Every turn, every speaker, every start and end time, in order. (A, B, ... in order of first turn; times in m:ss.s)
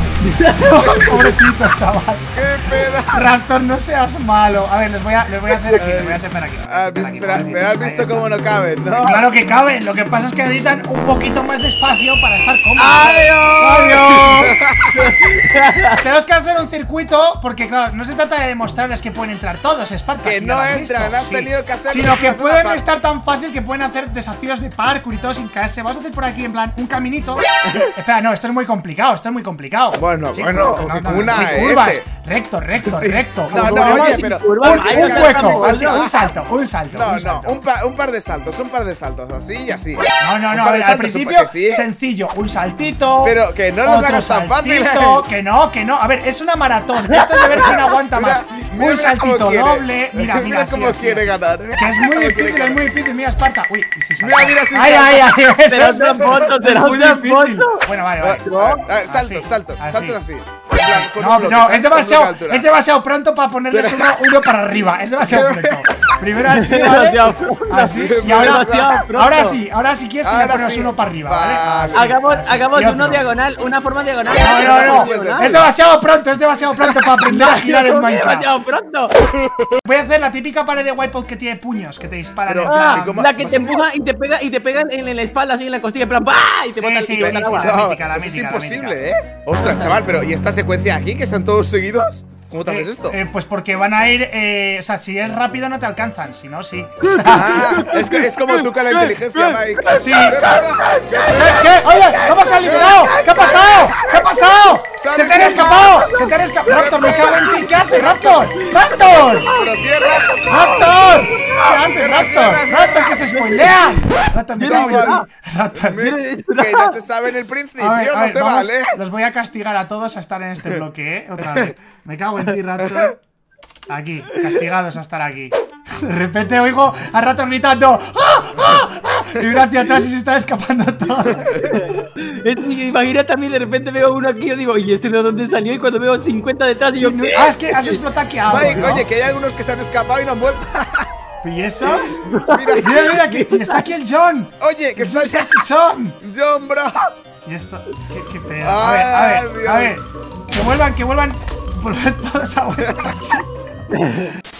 0:00.2-0:01.0 A
0:00.6-0:02.4 B
0:00.7-0:01.5 C
0:02.3-0:03.3 C
0:03.0-0:08.3 B
0:05.7-0:09.3 C
0:09.0-0:14.6 B
0:12.8-0:14.4 A
0:14.2-0:15.1 C
0:15.0-0:16.0 A
0:16.0-0:37.6 B
0:20.2-0:22.8 C
0:30.0-0:32.0 C
0:30.9-0:31.4 A
0:32.8-0:36.3 C
0:33.5-0:36.0 A
0:36.9-0:41.9 C
0:40.2-0:58.5 B
0:43.2-0:45.3 C
0:47.5-0:52.9 C
0:54.2-0:55.3 C
0:55.7-0:57.8 A
0:58.2-1:02.7 C
0:58.4-0:58.8 A
0:59.0-1:00.2 B
1:00.7-1:13.2 B
1:03.7-1:04.5 C
1:05.2-1:06.1 C
1:06.5-1:09.6 A
1:08.0-1:09.0 C
1:10.2-1:12.2 C
1:11.9-1:15.5 A
1:14.4-1:18.5 B
1:14.6-1:15.7 C
1:17.2-1:19.2 A
1:19.3-1:19.8 C
1:19.8-1:23.2 B
1:22.5-1:23.8 C
1:22.6-1:27.8 A
1:26.8-1:29.0 B
1:27.2-1:33.2 C
1:32.7-1:37.9 B
1:37.1-1:44.3 A
1:37.3-1:41.7 C
1:40.0-1:40.4 B
1:41.3-1:49.5 B
1:42.6-1:43.8 C
1:45.0-1:48.6 C
1:48.6-1:51.9 A
1:49.5-1:50.4 C
1:50.5-1:56.1 B
1:51.9-1:53.2 C
1:53.3-1:55.3 A
1:54.6-1:59.0 C
1:56.0-1:57.0 A
1:57.8-2:03.2 B
2:01.4-2:01.7 C
2:02.8-2:03.1 C
2:03.9-2:11.7 B
2:11.6-2:18.0 A
2:17.0-2:19.1 B
2:18.5-2:21.1 C
2:21.4-2:22.3 B
2:21.9-2:23.8 A
2:22.5-2:23.2 C
2:22.8-2:26.2 B
2:24.6-2:25.6 C
2:26.2-2:27.1 C
2:27.4-2:33.5 B
2:28.6-2:30.0 C
2:32.8-2:33.2 C
2:33.9-2:34.3 A